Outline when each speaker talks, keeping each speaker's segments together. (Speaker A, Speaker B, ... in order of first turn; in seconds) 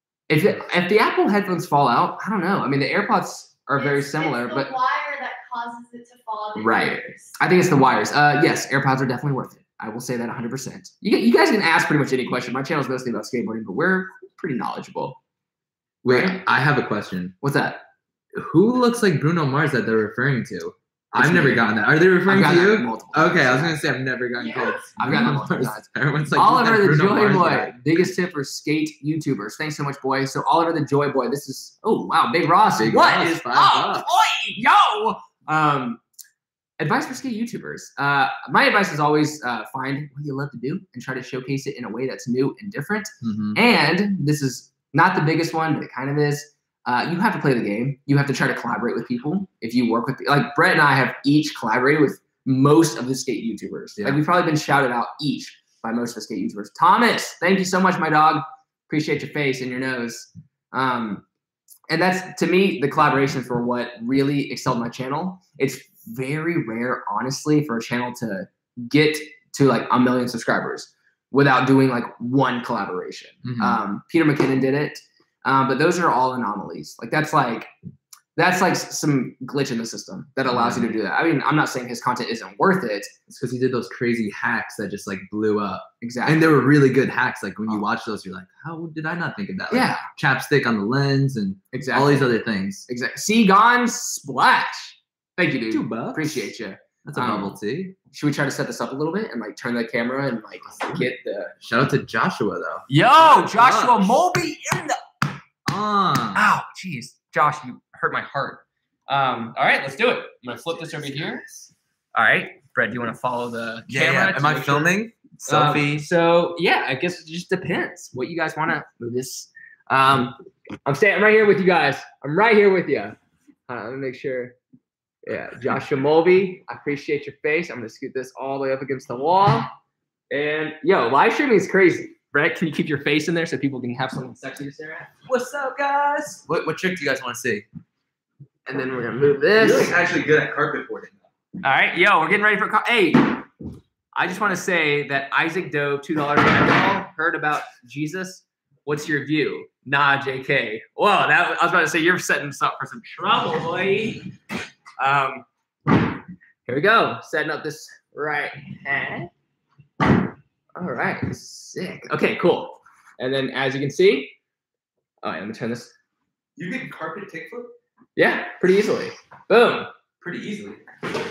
Speaker A: 0.3-4.7, 6.6-15.2, 16.1-16.4, 17.4-17.8, 21.1-21.7, 22.2-23.8, 25.0-36.0, 36.8-61.2, 61.9-77.7, 78.4-83.2, 86.0-86.5, 89.7-90.1, 91.7-92.3, 92.9-97.6, 98.1-101.5, 102.9-105.0, 106.3-111.5, 112.1-114.9, 115.5-123.2, 123.7-124.6, 125.2-129.7, 130.3-135.1, 138.7-140.0, 141.6-143.4, 144.1-154.3, 155.0-155.5, 156.7-159.3, 160.8-164.3, 165.2-165.9, 168.2-169.9
Speaker B: 3.8-7.4, 24.4-24.9
Speaker C: 16.0-17.4, 18.3-27.9, 32.8-34.1, 43.2-43.6, 73.4-73.8, 80.5-80.9, 83.3-92.9, 95.7-96.5, 97.0-98.0, 100.8-101.1, 101.6-104.2, 105.7-106.5, 110.6-111.7, 113.9-116.1, 134.6-137.7, 139.6-141.2, 166.6-167.7, 170.2-170.9